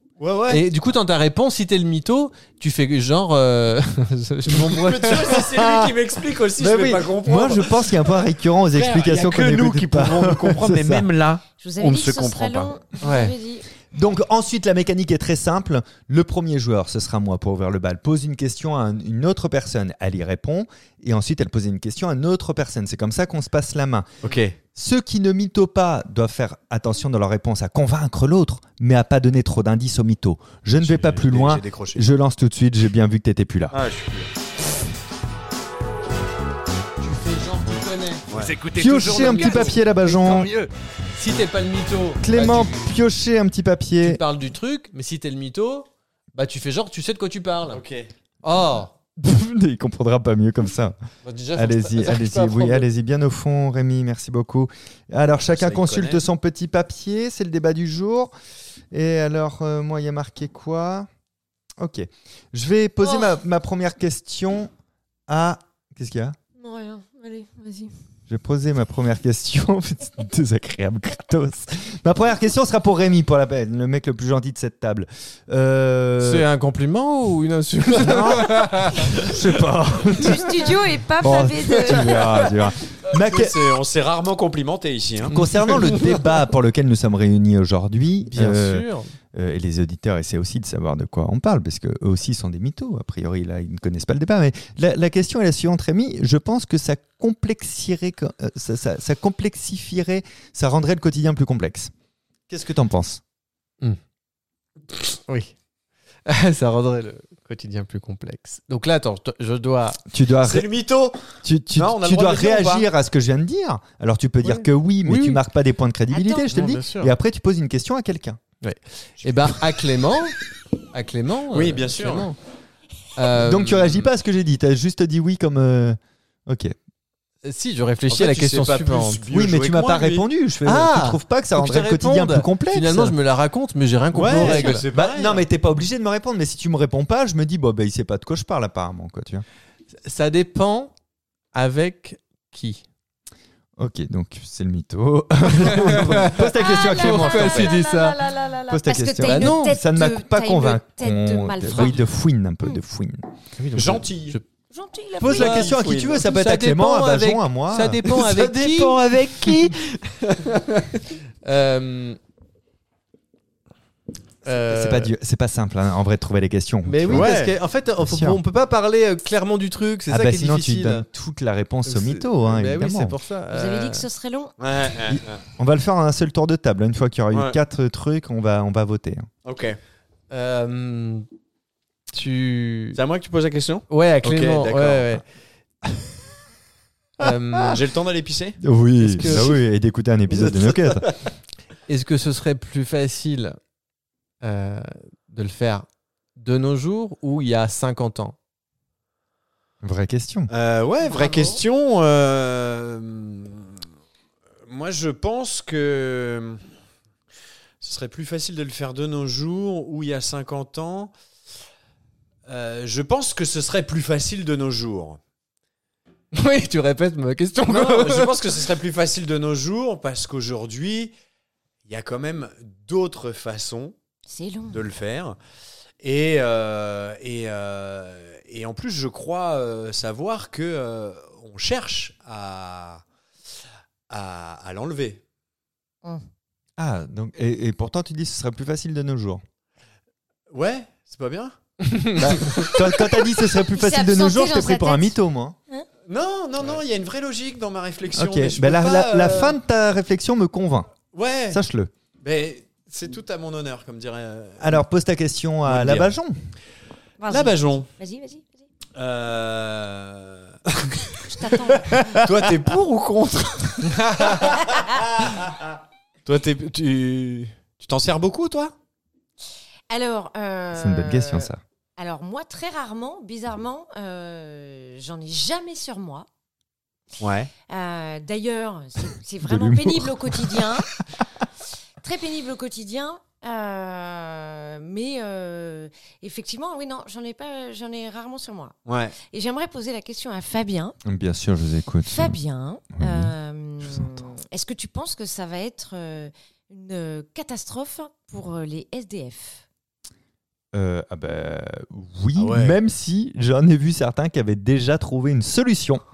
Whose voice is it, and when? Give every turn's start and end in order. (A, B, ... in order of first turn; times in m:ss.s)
0:00.2-0:00.6 A
0:00.5-0:05.4 B
0:04.4-0:08.1 A
0:05.5-0:05.9 C
0:06.6-0:11.1 C
0:08.7-0:12.7 A
0:11.6-0:13.6 D
0:13.0-0:13.3 B
0:13.9-0:24.2 C
0:24.2-0:24.5 A
0:24.7-0:33.8 C
0:30.8-0:32.0 A
0:33.7-0:34.3 A
0:37.0-0:38.2 B
0:38.3-0:38.5 A
0:38.3-0:40.7 E
0:38.8-0:40.5 C
0:39.0-0:39.8 B
0:41.1-0:42.9 B
0:42.2-0:44.2 C
0:44.0-0:47.8 B
0:47.7-0:48.1 A
0:48.4-0:48.9 B
0:49.2-0:50.9 C
0:51.2-0:52.9 B
0:51.5-0:58.3 C
0:55.5-0:56.2 A
0:58.9-1:01.1 C
1:01.8-1:04.7 C
1:03.0-1:03.3 D
1:05.3-1:06.4 C
1:06.6-1:07.9 D
1:08.3-1:16.5 C
1:16.2-1:19.3 B
1:17.9-1:20.7 C
1:20.1-1:22.2 D
1:21.2-1:23.6 C
1:23.1-1:26.1 A
1:25.3-1:41.9 C
1:28.3-1:29.1 B
1:42.5-1:43.2 C
1:45.3-1:45.5 B
1:46.3-1:50.0 B
1:50.1-1:50.7 C
1:50.4-1:51.2 A
1:51.4-1:58.4 C
1:51.7-1:52.9 A
1:54.4-1:55.4 B
1:56.1-1:56.5 D
1:56.5-1:57.1 B
1:58.6-2:00.3 B
1:59.2-1:59.5 A
2:00.9-2:02.4 B
2:01.5-2:02.3 A
2:03.2-2:04.0 B
2:03.3-2:06.7 C
2:07.4-2:09.2 B
2:08.1-2:10.2 A
2:09.3-2:13.2 C
2:10.6-2:14.8 B
2:14.1-2:15.4 A
2:14.3-2:19.4 C
2:20.0-2:20.9 B
2:21.5-2:22.8 B
2:23.8-2:27.8 C
2:25.5-2:28.2 B
2:26.5-2:32.0 D
2:28.7-2:33.2 C
2:29.2-2:29.7 B
2:33.6-2:34.4 B
2:33.7-2:34.4 A
2:34.7-2:35.7 D
2:35.2-2:39.7 C
2:35.4-2:36.2 A
2:36.2-2:39.7 B
2:39.5-2:40.9 A
2:41.4-2:42.2 B
2:44.4-2:45.1 B
2:44.6-2:47.3 C
2:46.8-2:51.0 B
2:47.1-2:47.6 A
2:48.0-2:48.4 C
2:50.1-2:53.2 C
2:51.8-2:54.1 B
2:53.5-2:54.5 D
2:54.6-2:55.4 A
2:55.1-2:59.3 C
2:57.3-2:57.6 A
2:59.4-2:59.8 A
3:00.3-3:01.2 B
3:02.1-3:03.0 B
3:02.9-3:05.2 A
3:03.9-3:05.2 B
3:07.2-3:07.8 B
3:07.2-3:07.8 C
3:07.7-3:08.6 A
3:08.6-3:11.1 C
3:09.0-3:09.6 B
3:09.3-3:09.5 A
3:10.3-3:11.2 A
3:11.9-3:13.6 B
3:14.4-3:18.4 B
3:19.8-3:20.5 C
3:20.5-3:23.7 A
3:21.0-3:21.6 D
3:24.7-3:26.6 A
3:27.8-3:31.1 A
3:32.5-3:35.2 A
3:36.3-3:38.4 B
3:37.6-3:41.1 A
3:41.8-3:43.9 A
3:44.3-3:44.8 D
3:44.7-3:45.4 A
3:46.0-3:53.0 A
3:54.1-3:55.2 A
3:56.8-3:59.4 C
4:00.5-4:01.5 A
4:02.2-4:05.6 C
4:02.2-4:02.7 A
4:03.5-4:05.1 D
4:06.1-4:09.6 A
4:08.1-4:10.9 C
4:11.1-4:11.6 A
4:11.5-4:11.9 C
4:12.2-4:14.8 A
4:14.6-4:16.3 C
4:15.6-4:16.1 A
4:17.2-4:18.6 D
4:17.3-4:17.9 A
4:19.0-4:21.2 A
4:21.2-4:22.2 D
4:22.0-4:25.5 A
4:24.6-4:25.0 D
4:26.2-4:28.7 A
4:29.9-4:36.3 D
4:30.7-4:31.6 C
4:37.2-4:37.5 A
4:37.7-4:40.9 D
4:39.4-4:40.7 C
4:42.0-4:51.0 D
4:48.9-4:49.2 A
4:51.0-4:52.4 C
4:52.0-4:59.6 D
4:53.0-4:53.3 C
4:53.8-4:54.2 C
5:00.7-5:06.0 C
5:02.4-5:02.8 A